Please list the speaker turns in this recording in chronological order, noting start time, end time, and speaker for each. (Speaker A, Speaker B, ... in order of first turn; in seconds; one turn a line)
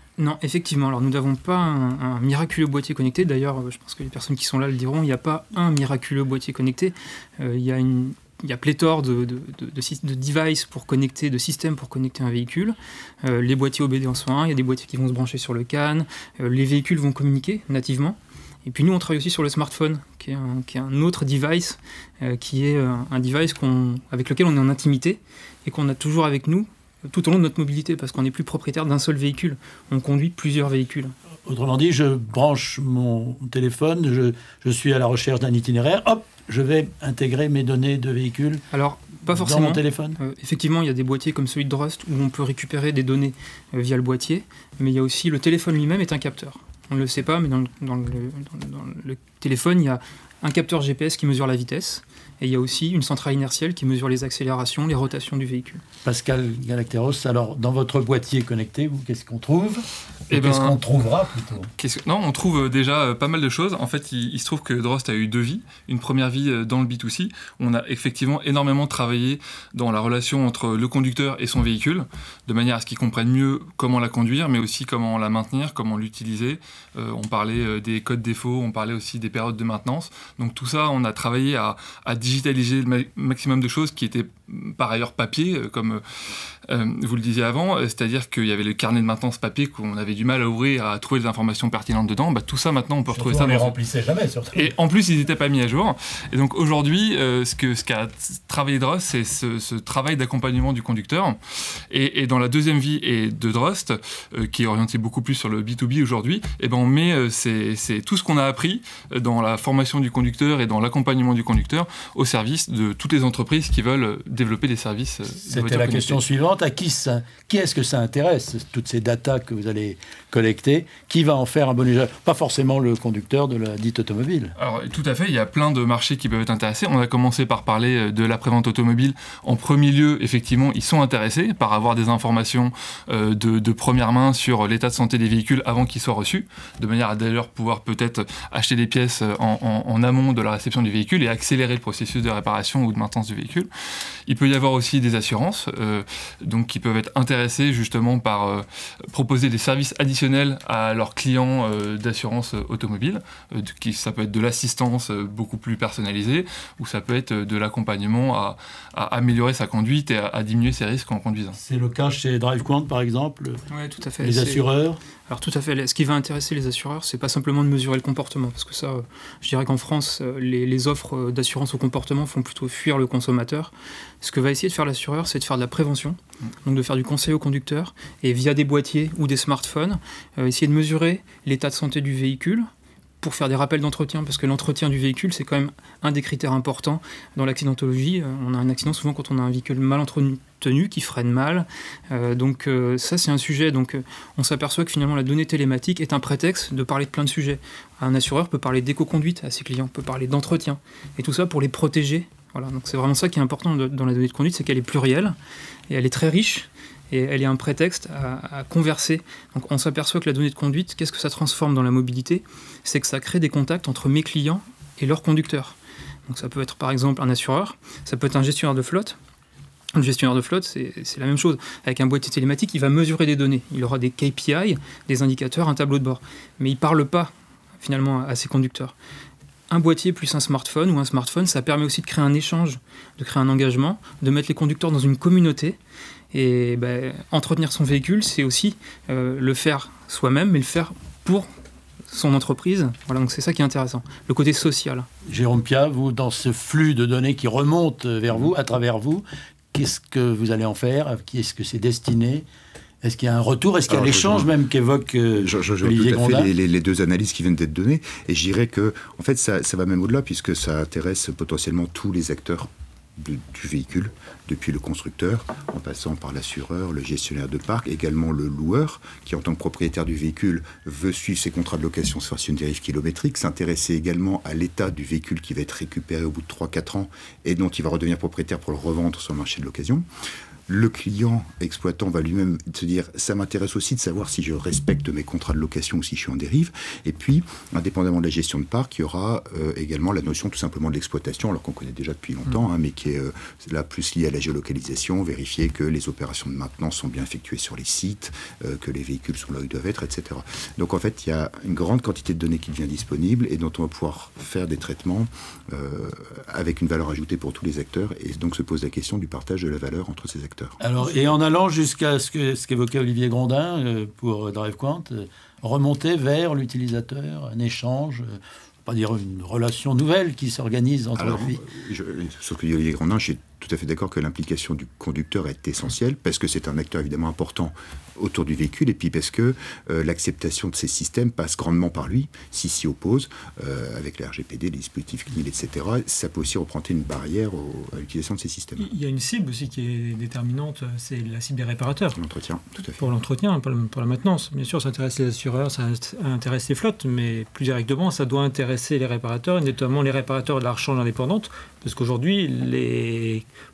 Speaker A: 0.2-31.1
Speaker B: 31.5-38.6
Speaker A: 38.7-55.8
Speaker B: 39.3-40.2
Speaker B: 56.0-61.7
Speaker C: 60.3-60.8
Speaker C: 61.8-86.0
Speaker C: 86.7-93.8
Speaker B: 93.1-94.7
Speaker C: 94.5-101.4
Speaker C: 101.9-116.2
Speaker B: 115.5-124.5
Speaker C: 124.6-143.7
Speaker C: 144.3-161.6
Speaker B: 161.5-163.6
Speaker A: 163.7-164.7
Speaker B: 164.2-165.0
Speaker A: 165.3-182.7
Speaker A: 183.2-205.4
Speaker A: 205.9-219.2
Speaker A: 219.9-228.9
Speaker A: 229.7-235.8
Speaker A: 236.3-241.5
Speaker A: 242.1-245.1
Speaker B: 245.3-252.5
Speaker B: 253.0-256.5
Speaker D: 253.9-254.5
Speaker D: 255.4-280.1
Speaker D: 280.7-310.8
Speaker B: 310.8-321.6
Speaker D: 321.2-338.9
Speaker E: 338.8-342.2
Speaker D: 342.2-343.0
Speaker E: 343.0-353.4